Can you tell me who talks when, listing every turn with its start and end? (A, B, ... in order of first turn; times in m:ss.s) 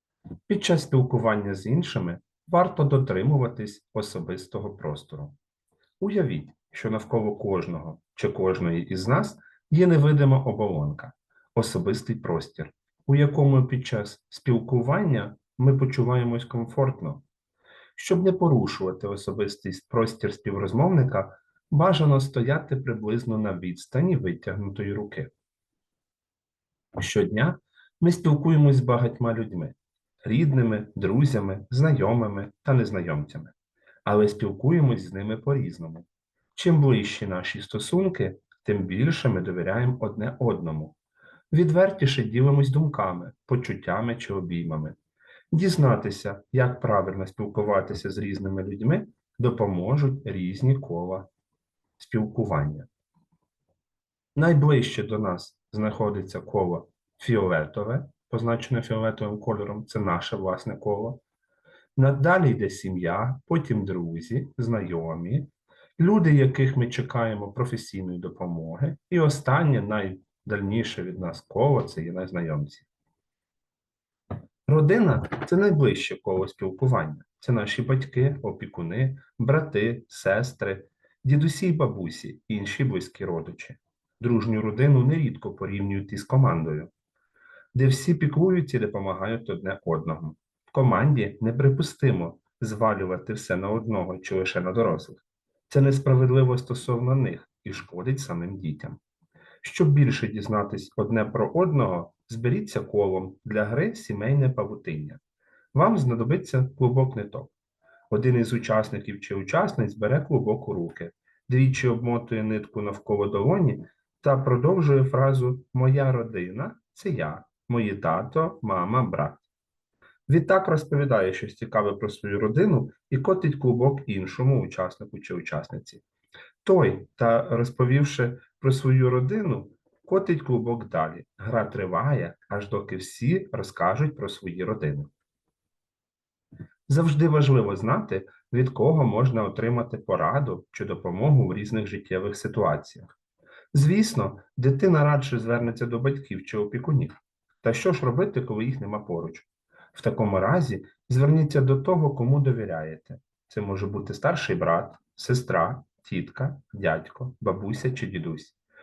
0:00.5-0:05.4 A
0:06.0-0:17.2 A
0:18.0-0:25.3 A
0:27.0-0:33.5 A
0:34.0-0:41.0 A
0:41.5-0:45.0 A
0:45.5-0:51.3 A
0:52.0-0:52.9 A
0:54.4-1:01.2 A
1:02.0-1:12.9 A
1:14.7-1:26.9 A
1:27.7-1:39.0 A
1:39.6-1:45.2 A
1:45.7-1:47.5 A
1:48.1-1:59.4 A
2:00.3-2:06.0 A
2:06.6-2:15.1 A
2:16.9-2:23.1 A
2:23.7-2:38.6 A